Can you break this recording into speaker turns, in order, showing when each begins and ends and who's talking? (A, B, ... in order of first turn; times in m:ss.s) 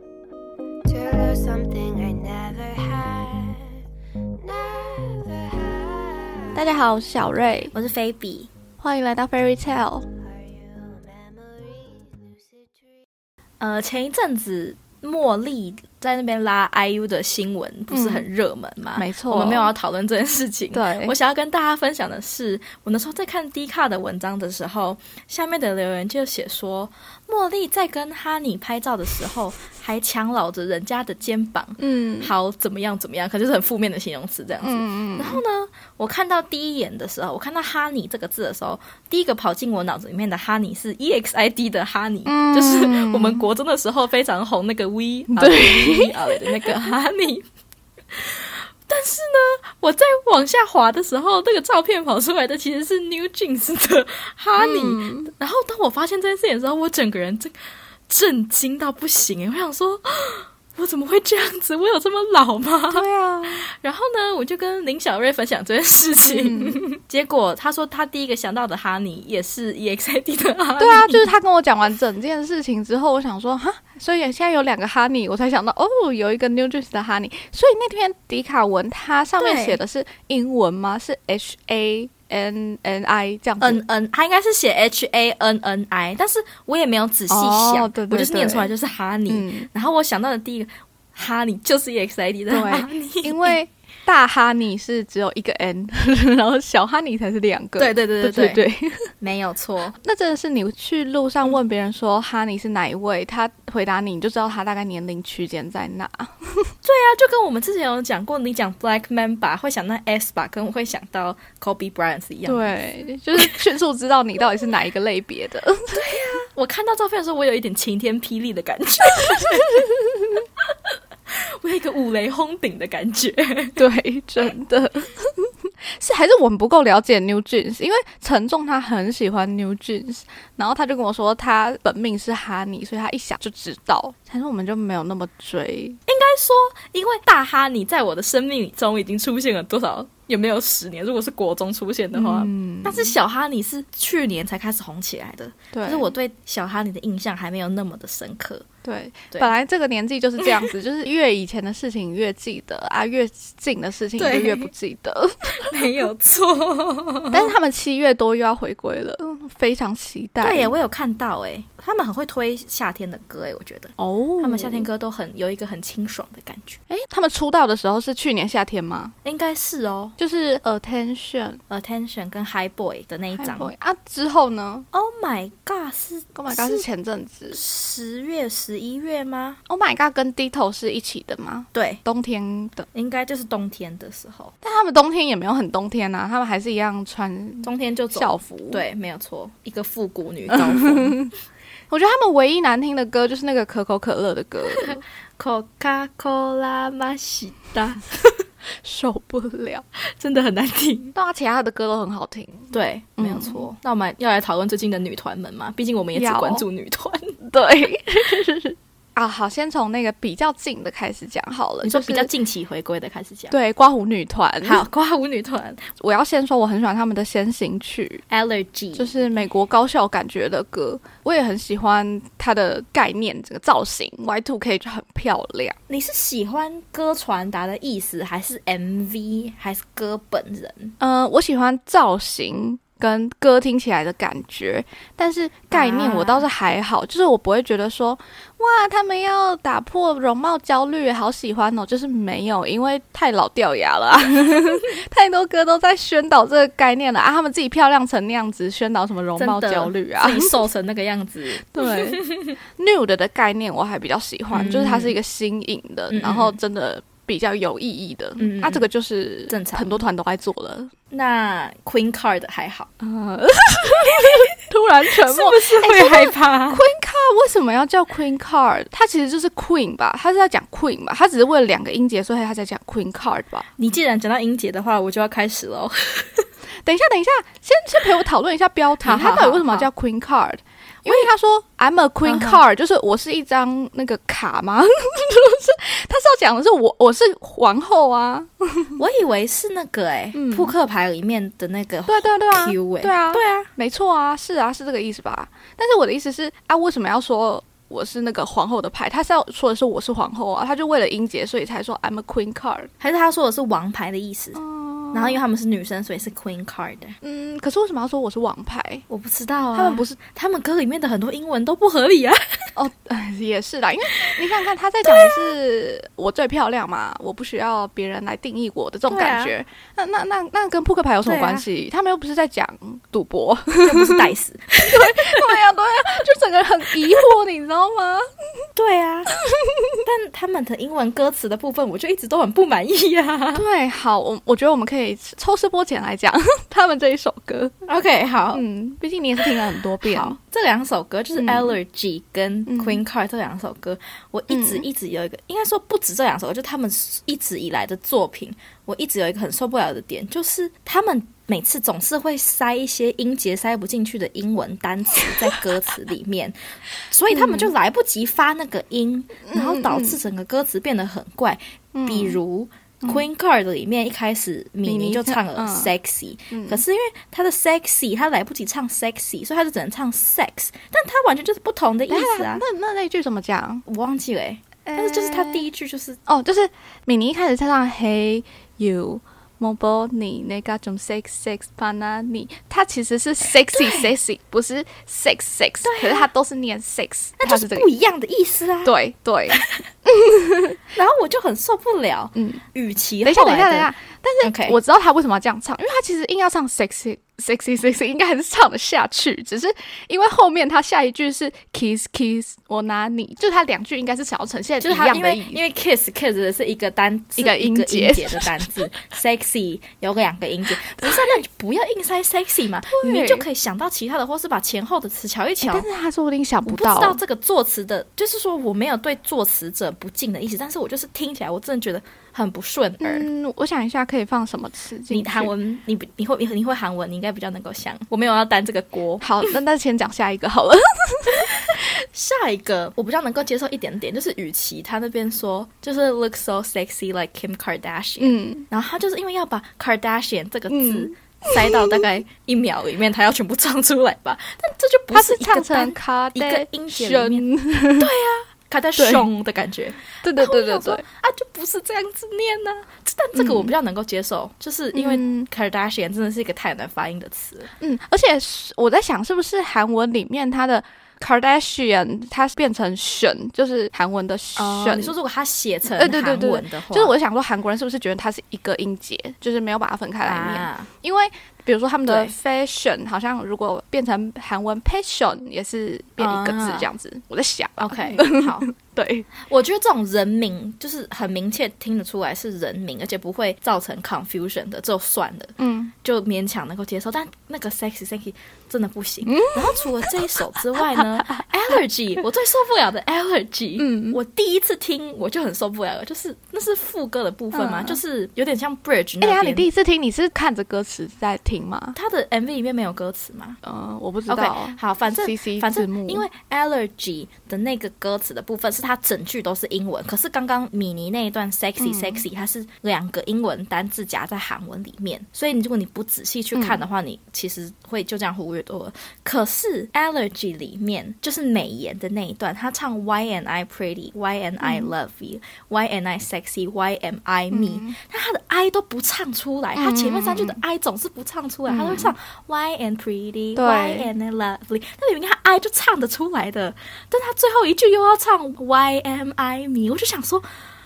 0:00.8-0:03.8 A
0:04.4-0:06.7 A
0:06.5-0:07.7 B
0:07.7-0:08.5 C
0:08.8-0:10.0 B
0:10.1-0:13.0 A
0:13.6-0:47.4 C
0:17.9-0:18.2 B
0:19.0-0:19.7 B
0:20.7-0:21.1 B
0:31.8-0:32.3 B
0:34.6-0:35.4 B
0:42.2-0:43.4 B
0:45.3-0:46.7 B
0:48.1-0:57.5 C
0:54.6-0:55.3 B
0:58.1-1:03.1 C
1:02.9-1:03.6 B
1:03.6-1:11.3 C
1:06.2-1:06.8 B
1:10.8-1:23.8 B
1:19.4-1:19.8 C
1:23.6-1:33.6 C
1:27.3-1:28.7 B
1:29.3-1:29.7 B
1:32.5-1:39.1 B
1:37.8-1:38.6 C
1:39.2-1:40.0 C
1:40.0-1:46.7 B
1:46.8-1:52.7 C
1:52.4-1:56.4 B
1:55.9-1:59.9 C
1:59.1-2:00.4 B
2:00.7-2:03.8 C
2:03.8-2:16.0 B
2:16.0-2:28.6 C
2:22.1-2:23.1 B
2:25.7-2:26.1 B
2:28.8-2:36.1 B
2:34.2-2:34.7 C
2:35.6-2:37.5 C
2:37.3-2:40.8 B
2:40.4-2:46.8 C
2:44.0-2:44.9 B
2:46.9-2:49.1 B
2:49.2-2:50.2 C
2:50.2-2:51.6 B
2:51.7-2:53.7 C
2:53.4-2:54.9 B
2:54.9-2:56.8 C
2:56.3-2:57.6 B
2:57.5-2:59.6 C
2:59.7-3:02.9 B
3:01.7-3:02.0 C
3:02.9-3:04.5 C
3:04.6-3:08.8 B
3:07.6-3:11.2 C
3:10.5-3:11.3 B
3:11.9-3:15.0 B
3:14.7-3:18.4 C
3:18.8-3:19.8 B
3:20.0-3:21.1 C
3:21.1-3:23.6 B
3:22.7-3:27.4 C
3:26.1-3:26.6 B
3:27.4-3:32.3 B
3:31.8-3:33.5 C
3:33.5-3:34.8 B
3:34.6-3:35.9 C
3:36.0-3:38.2 B
3:38.3-3:39.3 C
3:39.0-3:45.8 B
3:45.9-3:50.9 C
3:51.0-4:10.6 B
3:55.7-3:56.4 C
4:09.4-4:12.6 C
4:11.7-4:12.2 B
4:12.8-4:20.9 B
4:14.5-4:15.2 C
4:16.1-4:16.6 C
4:18.4-4:18.8 C
4:19.5-4:20.0 C
4:21.1-4:22.9 C
4:23.0-4:33.7 B
4:24.0-4:24.5 C
4:25.2-4:26.8 C
4:33.8-4:36.5 C
4:36.8-4:49.0 B
4:39.0-4:39.9 C
4:42.2-4:42.6 C
4:49.0-4:53.7 C
4:50.3-4:50.7 B
4:52.1-5:02.9 B
5:03.0-5:04.6 C
5:04.6-5:05.4 B
5:05.1-5:07.2 C
5:07.2-5:09.0 B
5:09.1-5:12.7 C
5:09.7-5:10.2 B
5:12.8-5:24.3 B
5:19.1-5:19.5 C
5:21.2-5:21.6 C
5:23.8-5:25.5 C
5:24.8-5:28.3 B
5:28.7-5:29.3 C
5:29.4-5:30.0 B
5:30.0-5:33.6 C
5:33.5-5:37.8 B
5:37.9-5:38.6 C
5:38.5-5:40.4 B
5:40.0-5:56.6 C
5:41.3-5:41.8 B
5:42.7-5:43.0 B
5:44.5-5:44.8 B
5:57.1-6:12.6 C
5:57.3-5:57.7 B
5:59.5-6:00.2 B
6:01.9-6:02.4 B
6:04.8-6:05.9 B
6:06.5-6:06.8 B
6:12.1-6:13.8 B
6:13.8-6:16.2 C
6:14.8-6:15.6 B
6:16.3-6:27.9 B
6:25.8-6:26.3 C
6:27.4-6:28.9 C
6:28.8-6:30.8 B
6:29.5-6:29.8 C
6:30.9-6:33.9 C
6:33.2-6:45.6 B
6:34.4-6:34.8 C
6:44.8-6:55.9 C
6:47.4-6:48.8 B
6:51.0-6:51.3 B
6:52.9-6:53.5 B
6:55.6-6:57.2 B
6:56.6-7:03.3 C
7:03.0-7:05.5 B
7:05.1-7:09.5 C
7:09.2-7:11.8 B
7:11.3-7:37.7 C
7:18.2-7:18.6 B
7:20.7-7:22.0 B
7:25.1-7:28.1 B
7:29.0-7:29.2 B
7:30.2-7:31.0 B
7:33.4-7:33.7 B
7:34.9-7:35.5 B
7:37.8-7:45.1 B
7:44.6-7:47.1 C
7:45.9-7:59.3 B
7:50.2-7:50.9 C
7:52.1-7:52.3 C
7:56.2-7:56.8 C
7:57.8-7:58.7 C
7:59.4-8:19.7 C
8:05.6-8:05.9 B
8:09.2-8:11.4 B
8:13.8-8:14.2 B
8:17.5-8:18.0 B
8:19.2-8:22.0 B
8:21.9-8:23.6 C
8:23.6-8:26.2 B
8:24.3-9:00.4 C
8:31.8-8:32.2 B
8:44.6-8:44.9 B
8:47.5-8:47.9 B
8:49.8-8:50.6 B
8:51.7-8:52.1 B
8:53.6-8:54.1 B